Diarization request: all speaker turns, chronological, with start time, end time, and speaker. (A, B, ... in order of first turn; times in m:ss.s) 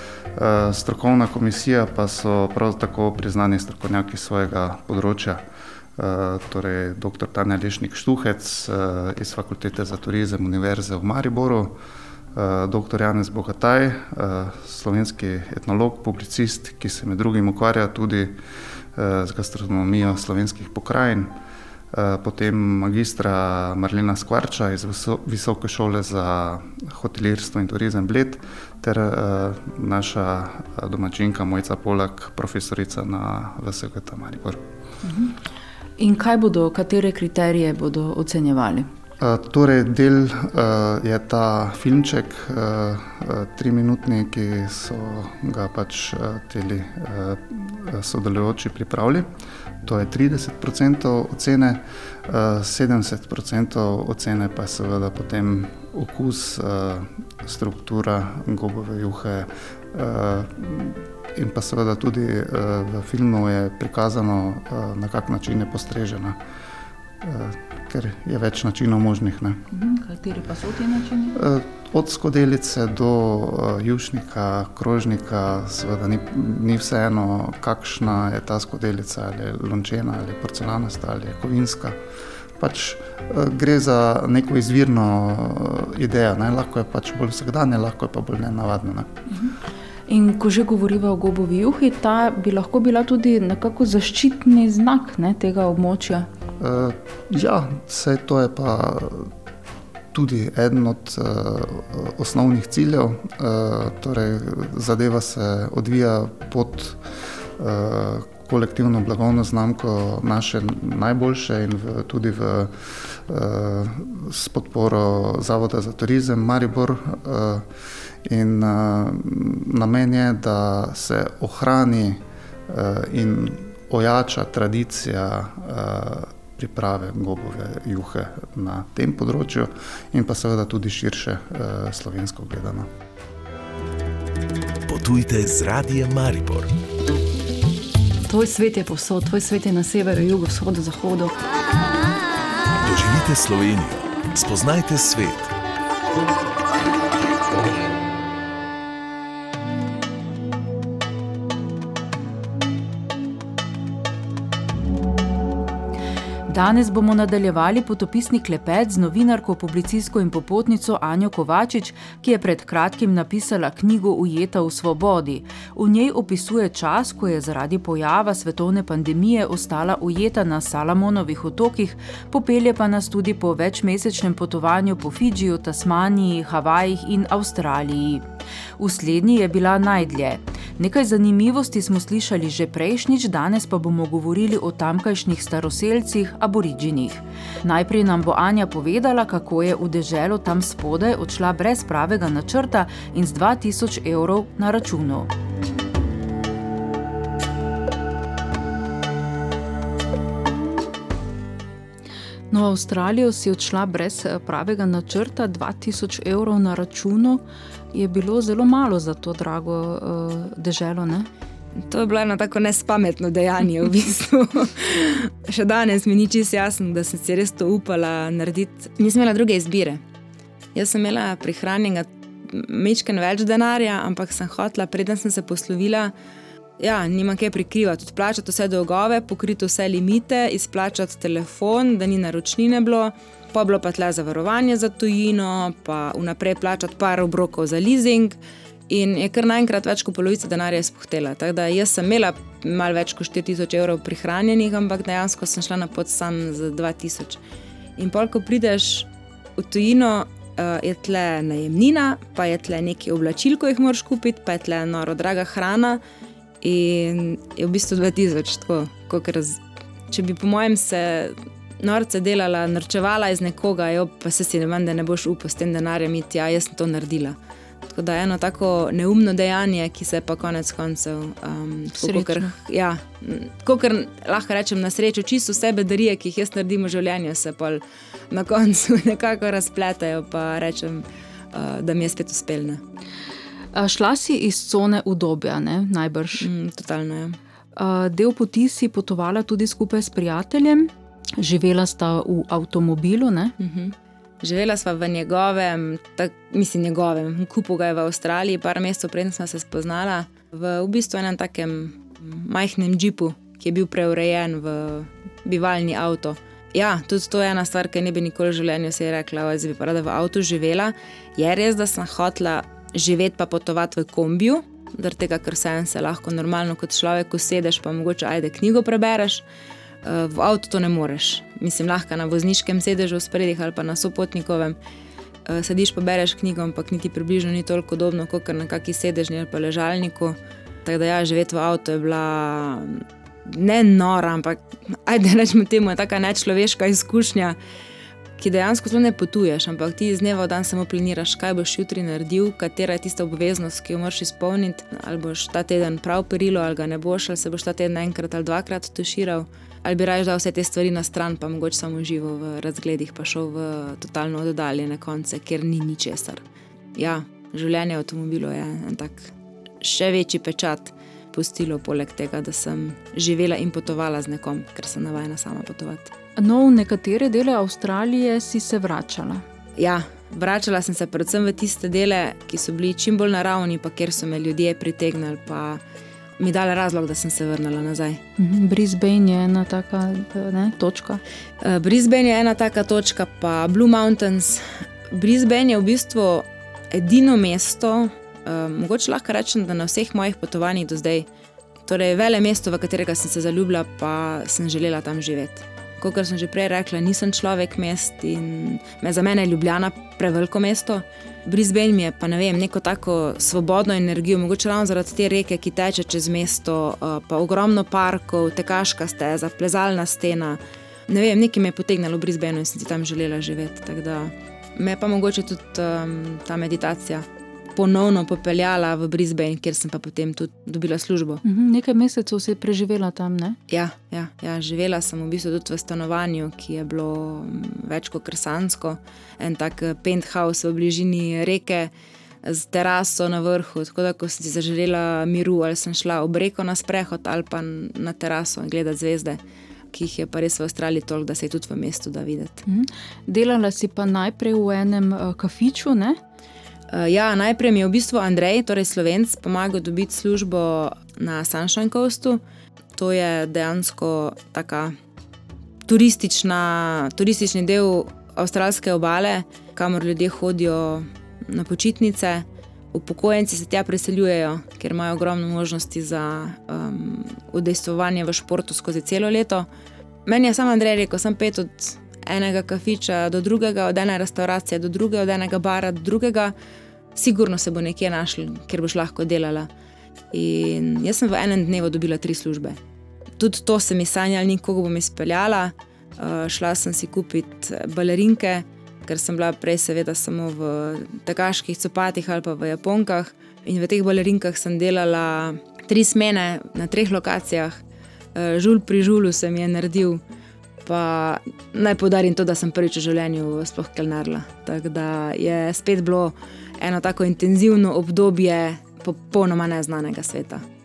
0:00.4-0:05.4 A
0:06.0-0:11.8 A
0:12.3-0:18.4 A
0:19.0-0:21.3 A
0:21.9-0:34.6 A
0:35.0-0:35.4 B
0:36.0-0:38.9 B
0:39.2-0:49.3 A
0:49.8-1:06.4 A
1:07.2-1:09.6 A
1:09.7-1:11.4 B
1:11.4-1:22.0 A
1:22.6-1:29.2 A
1:30.1-1:36.3 B
1:36.6-1:39.3 A
1:40.1-1:47.0 A
1:47.6-1:57.7 A
1:58.2-2:12.9 A
2:14.9-2:16.7 C
2:18.3-2:21.3 D
2:22.8-2:25.5 C
2:36.5-2:58.2 B
2:58.8-3:15.3 B
3:22.5-3:31.3 B
3:31.9-3:40.0 E
3:40.8-3:46.1 E
3:46.8-3:58.4 E
3:58.9-4:07.4 E
4:08.0-4:16.0 E
4:16.6-4:42.8 E
4:31.9-4:32.6 B
4:43.8-4:46.5 B
4:46.4-4:47.4 E
4:47.8-4:53.6 B
4:53.6-5:19.4 E
5:20.0-5:24.8 E
5:25.5-5:37.6 E
5:38.4-5:56.4 E
5:57.0-6:06.1 E
6:06.4-6:09.4 B
6:09.8-6:15.8 E
6:16.4-6:18.2 E
6:18.4-6:21.2 B
6:21.6-6:31.3 E
6:31.9-7:01.4 E
7:01.4-7:03.6 B
7:03.7-7:11.9 E
7:12.4-7:19.4 E
7:19.9-7:22.6 E
7:22.7-7:26.2 B
7:26.9-7:32.4 E
7:33.0-7:35.0 E
7:35.9-7:49.7 E
7:50.3-7:56.5 E
7:57.2-7:59.7 E
8:00.3-8:02.8 E
8:03.4-8:17.8 E
8:18.4-8:20.2 E
8:20.8-8:30.6 E